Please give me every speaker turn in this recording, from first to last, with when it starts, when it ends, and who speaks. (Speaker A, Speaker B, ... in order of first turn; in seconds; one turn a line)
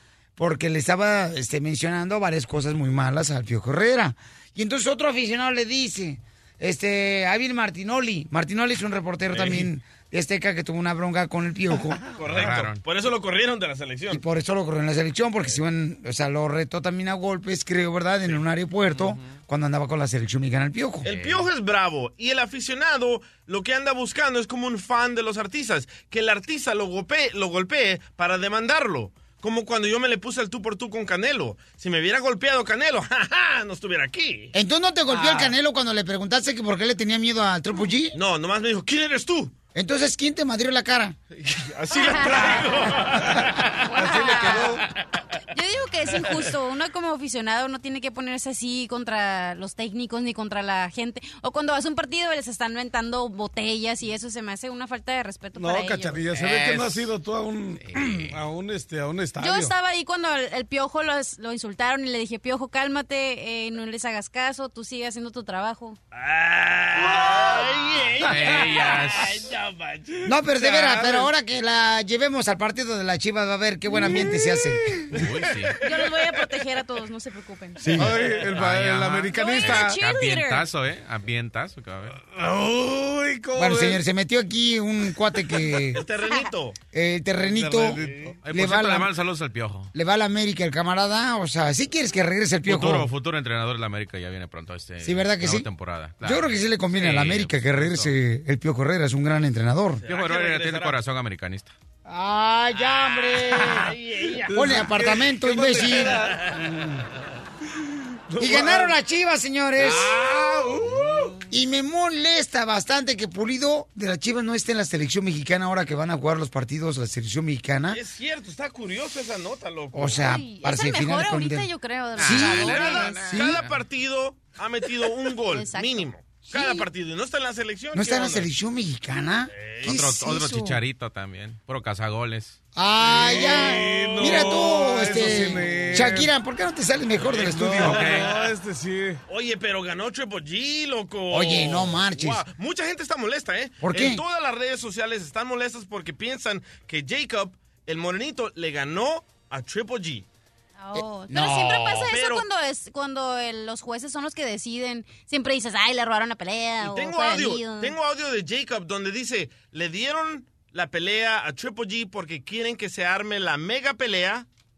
Speaker A: 0.4-12.0
Speaker B: 9.3-9.7
Speaker B: 12.2-14.2
Speaker C: 12.2-12.8
Speaker A: 14.1-21.1
Speaker B: 21.0-34.5
Speaker C: 21.1-21.5
Speaker A: 34.5-38.1
Speaker B: 38.1-39.5
Speaker A: 39.8-41.1
Speaker B: 41.4-44.6
Speaker D: 41.9-42.8
Speaker D: 43.9-44.8
Speaker A: 44.3-44.7
Speaker D: 45.5-56.2
Speaker E: 55.6-59.7
Speaker C: 56.3-57.0
Speaker C: 57.9-58.4
Speaker D: 59.4-66.0
Speaker B: 66.2-68.8
Speaker C: 68.2-69.5
Speaker E: 68.4-68.8
Speaker A: 70.3-74.9
Speaker E: 70.6-71.3
Speaker C: 75.1-75.8
Speaker D: 75.8-77.8
Speaker A: 77.8-78.2
Speaker E: 77.9-80.0
Speaker C: 78.0-82.2
Speaker D: 79.3-80.7
Speaker E: 82.2-84.0
Speaker A: 83.6-86.0
Speaker B: 85.9-86.8
Speaker A: 86.9-89.1
Speaker E: 87.5-88.4
Speaker C: 88.4-89.9
Speaker A: 89.9-93.1
Speaker C: 92.6-98.1
Speaker A: 95.0-95.7
Speaker A: 96.2-100.0
Speaker B: 100.0-101.0
Speaker C: 100.1-101.7
Speaker A: 102.1-103.9
Speaker B: 103.5-104.9
Speaker A: 104.5-106.2
Speaker E: 104.5-106.4
Speaker E: 108.3-108.9
Speaker A: 108.4-110.1
Speaker E: 109.8-111.4
Speaker A: 111.5-118.0
Speaker B: 117.9-120.2
Speaker A: 119.9-121.7
Speaker D: 120.2-123.1
Speaker A: 122.2-123.6
Speaker B: 122.2-128.5
Speaker C: 122.9-123.7
Speaker D: 125.5-126.1
Speaker A: 127.9-130.8
Speaker B: 129.5-130.0
Speaker C: 129.8-132.6
Speaker A: 132.8-138.1
Speaker E: 133.0-136.3
Speaker E: 137.2-139.2
Speaker B: 137.5-138.3
Speaker B: 139.3-150.2
Speaker A: 141.3-142.4
Speaker A: 143.8-144.2
Speaker D: 150.8-157.9
Speaker A: 150.9-152.1
Speaker B: 152.1-152.5
Speaker B: 156.8-164.5